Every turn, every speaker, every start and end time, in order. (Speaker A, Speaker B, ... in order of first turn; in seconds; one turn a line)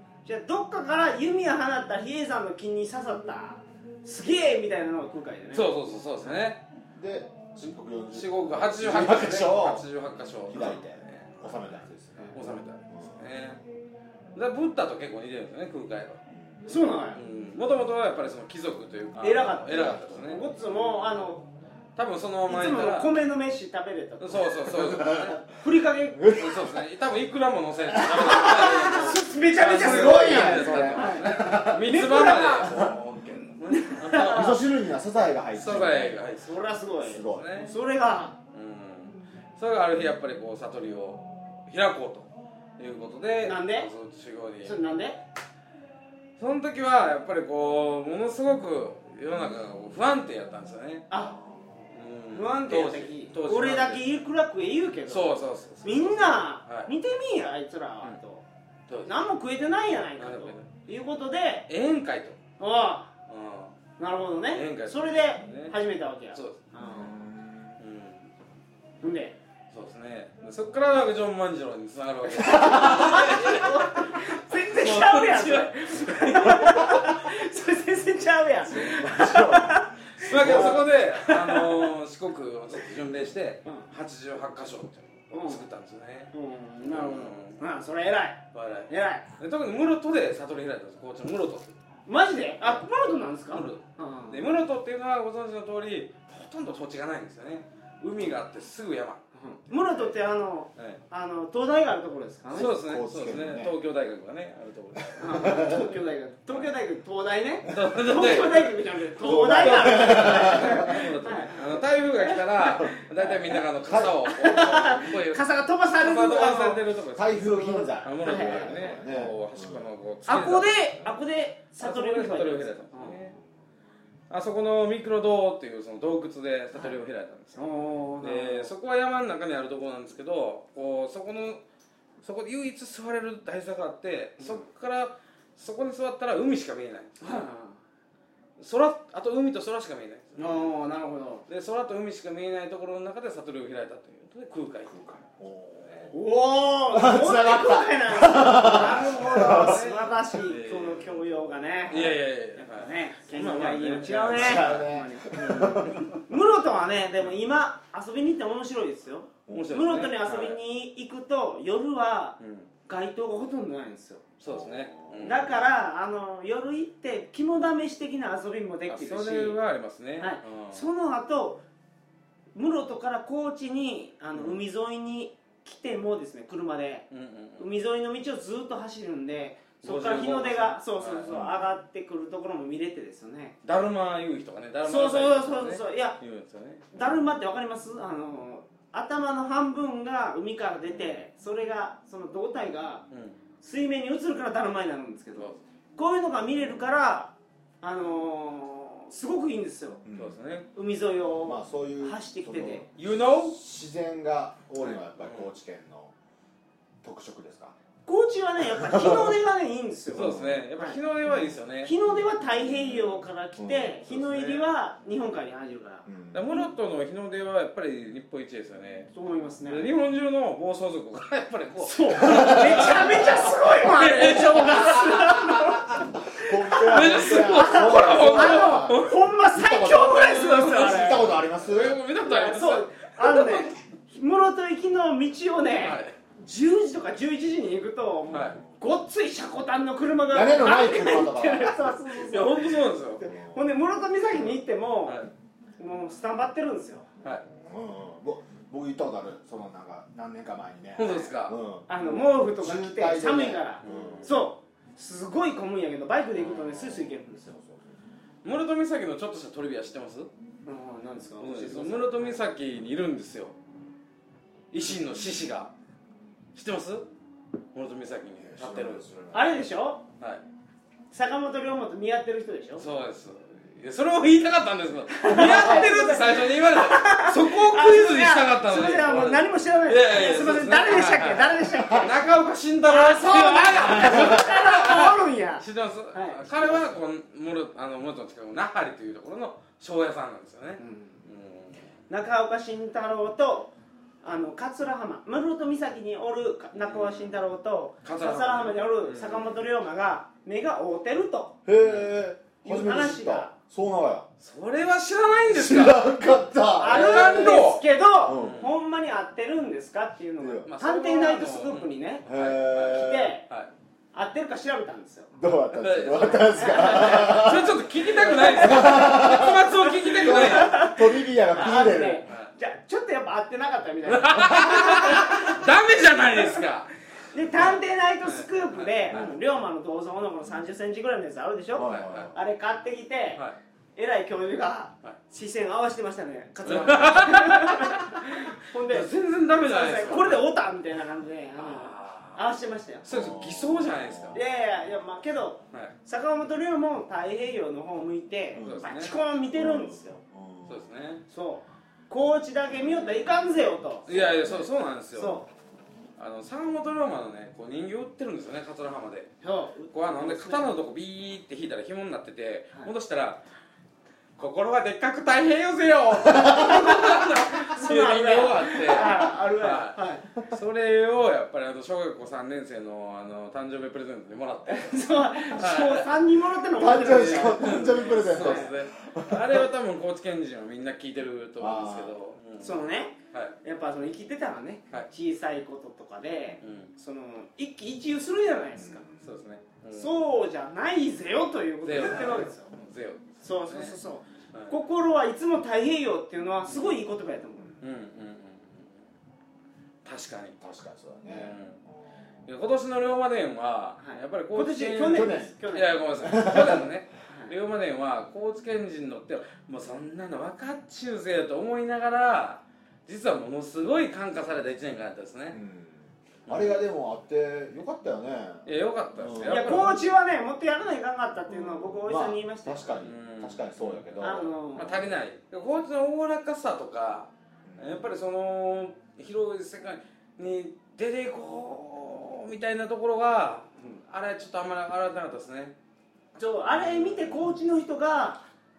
Speaker A: 0.2-5.7
Speaker B: 5.5-6.6
Speaker C: 7.0-9.8
Speaker B: 8.1-11.8
Speaker C: 10.5-13.2
Speaker B: 12.3-13.6
Speaker B: 14.3-16.2
Speaker A: 16.7-17.2
Speaker B: 17.1-20.4
Speaker A: 19.2-21.5
Speaker C: 19.7-20.0
Speaker B: 22.0-23.1
Speaker A: 22.5-24.5
Speaker B: 24.2-25.4
Speaker C: 24.7-25.4
Speaker A: 25.6-26.3
Speaker C: 26.2-26.8
Speaker B: 26.3-34.6
Speaker A: 28.1-32.9
Speaker C: 29.7-33.0
Speaker A: 33.7-34.6
Speaker C: 34.1-36.3
Speaker B: 35.5-36.6
Speaker A: 36.4-38.4
Speaker C: 37.0-37.6
Speaker B: 37.2-37.8
Speaker B: 38.5-44.8
Speaker A: 43.4-43.9
Speaker A: 44.6-45.2
Speaker B: 46.4-51.1
Speaker A: 51.1-51.4
Speaker B: 51.9-54.1
Speaker A: 52.3-58.4
Speaker B: 55.1-56.9
Speaker B: 58.9-59.1
Speaker A: 59.1-61.7
Speaker B: 60.2-60.7
Speaker B: 61.7-62.4
Speaker A: 62.6-63.1
Speaker B: 63.3-63.7
Speaker A: 64.0-67.2
Speaker B: 64.5-65.7
Speaker B: 66.3-66.6
Speaker C: 66.8-67.8
Speaker B: 67.8-68.3
Speaker A: 69.0-69.3
Speaker B: 69.7-76.8
Speaker C: 72.4-73.2
Speaker A: 72.6-81.9
Speaker C: 78.8-80.9
Speaker B: 80.2-86.3
Speaker A: 85.3-85.6
Speaker A: 86.3-89.3
Speaker B: 86.8-87.6
Speaker B: 88.5-91.8
Speaker A: 92.1-94.4
Speaker B: 93.5-99.2
Speaker A: 99.3-102.8
Speaker B: 100.8-101.0
Speaker C: 102.5-103.7
Speaker B: 102.5-105.7
Speaker C: 105.2-105.9
Speaker A: 105.2-113.0
Speaker B: 107.7-120.8
Speaker C: 109.2-111.1
Speaker C: 112.6-114.3
Speaker A: 114.3-116.8
Speaker C: 117.1-119.8
Speaker A: 117.8-119.0
Speaker A: 120.3-123.2
Speaker B: 121.8-123.4
Speaker B: 124.3-127.6
Speaker A: 127.6-128.7
Speaker B: 128.2-131.6
Speaker B: 132.2-137.5
Speaker A: 137.2-137.8
Speaker B: 138.6-140.7
Speaker A: 140.4-141.4
Speaker B: 141.5-145.0
Speaker C: 144.8-146.2
Speaker A: 146.1-164.2
Speaker C: 146.9-149.8
Speaker B: 148.6-151.2
Speaker B: 151.9-156.1
Speaker C: 154.3-156.2
Speaker B: 159.5-160.6
Speaker B: 162.4-162.7
Speaker B: 164.4-165.6
Speaker C: 164.5-165.5
Speaker A: 165.2-169.6
Speaker B: 168.9-170.8
Speaker A: 170.2-171.6
Speaker A: 172.6-177.1
Speaker B: 177.1-177.7
Speaker A: 177.6-183.6
Speaker B: 179.8-181.4
Speaker C: 181.3-181.6
Speaker B: 183.6-186.9
Speaker A: 184.8-186.2
Speaker A: 186.9-193.1
Speaker B: 193.1-193.4
Speaker A: 193.6-200.0
Speaker C: 200.1-200.4
Speaker B: 200.2-200.7
Speaker A: 200.7-202.9
Speaker C: 201.4-206.1
Speaker B: 203.0-203.6
Speaker B: 204.8-205.5
Speaker C: 207.0-207.8
Speaker A: 208.1-211.0
Speaker C: 208.8-209.4
Speaker C: 210.1-210.6
Speaker B: 210.1-211.9
Speaker A: 211.8-216.1
Speaker C: 213.6-214.0
Speaker B: 214.1-214.7
Speaker C: 216.1-216.5
Speaker B: 216.3-219.1
Speaker A: 219.1-219.9
Speaker B: 219.7-225.9
Speaker A: 221.8-231.4
Speaker C: 222.2-223.1
Speaker C: 226.3-232.0
Speaker B: 226.8-229.2
Speaker B: 230.3-233.8
Speaker A: 232.2-245.2
Speaker B: 235.7-236.2
Speaker B: 238.3-238.6
Speaker C: 238.3-238.8
Speaker C: 240.3-242.0
Speaker B: 242.2-243.2
Speaker C: 243.2-243.6
Speaker A: 245.8-247.1
Speaker C: 247.2-254.3
Speaker B: 251.0-251.6
Speaker A: 251.9-257.5
Speaker B: 253.8-254.2
Speaker C: 256.5-257.9
Speaker B: 258.4-260.3
Speaker A: 260.7-262.4
Speaker B: 261.4-263.6
Speaker B: 264.7-265.7
Speaker B: 266.6-267.1
Speaker B: 267.7-269.1
Speaker C: 268.4-269.5
Speaker A: 269.3-270.0
Speaker A: 271.1-272.9
Speaker B: 272.8-291.8
Speaker A: 275.1-282.2
Speaker A: 282.9-286.9
Speaker C: 284.1-284.4
Speaker A: 290.8-291.2
Speaker A: 292.1-293.7
Speaker A: 294.2-301.6
Speaker B: 296.8-297.4
Speaker B: 298.0-299.5
Speaker C: 301.6-304.3
Speaker B: 301.8-302.1
Speaker A: 302.6-303.5
Speaker B: 304.4-306.1
Speaker C: 305.5-307.6
Speaker A: 306.8-312.3
Speaker B: 306.8-308.7
Speaker C: 308.2-308.7
Speaker C: 310.4-310.7
Speaker B: 310.7-313.7
Speaker C: 312.3-313.4
Speaker A: 312.8-313.4
Speaker A: 314.1-315.3
Speaker C: 315.3-322.3
Speaker B: 315.7-320.9
Speaker A: 316.5-317.5
Speaker A: 318.2-325.6
Speaker B: 324.1-326.9
Speaker A: 326.3-326.6
Speaker A: 327.3-333.4
Speaker B: 327.5-329.3
Speaker C: 331.8-332.4
Speaker B: 331.8-332.3
Speaker A: 334.0-343.1
Speaker B: 336.6-340.5
Speaker B: 341.6-342.4
Speaker B: 343.0-344.4
Speaker C: 343.1-344.4
Speaker A: 344.3-350.2
Speaker C: 348.5-348.9
Speaker B: 348.6-349.2
Speaker C: 349.5-350.9
Speaker B: 350.7-351.2
Speaker A: 351.3-354.5
Speaker C: 352.9-353.2
Speaker B: 354.1-355.4
Speaker C: 354.1-354.7
Speaker A: 355.1-355.5
Speaker B: 356.2-359.4
Speaker A: 359.4-360.7
Speaker B: 359.9-363.4
Speaker B: 364.4-376.1
Speaker A: 366.4-370.3
Speaker A: 374.7-378.7
Speaker C: 376.8-379.7
Speaker B: 376.9-383.6
Speaker C: 381.6-382.2
Speaker A: 382.6-389.1
Speaker B: 386.6-386.9
Speaker C: 388.8-389.2
Speaker B: 389.2-390.2
Speaker A: 389.9-392.7
Speaker B: 391.8-394.0
Speaker A: 393.4-397.7
Speaker B: 396.7-397.0
Speaker B: 397.8-399.0
Speaker B: 400.1-400.6
Speaker C: 400.6-401.6
Speaker B: 401.3-401.8
Speaker B: 402.5-415.6
Speaker A: 404.0-406.0
Speaker C: 405.1-405.6
Speaker C: 406.1-406.9
Speaker A: 407.3-407.5
Speaker C: 415.5-419.8
Speaker B: 416.5-416.8
Speaker B: 418.7-420.0
Speaker A: 419.4-423.0
Speaker C: 421.5-424.5
Speaker B: 423.0-435.7
Speaker A: 424.2-425.0
Speaker C: 427.7-428.1
Speaker A: 436.4-438.4
Speaker B: 436.7-437.5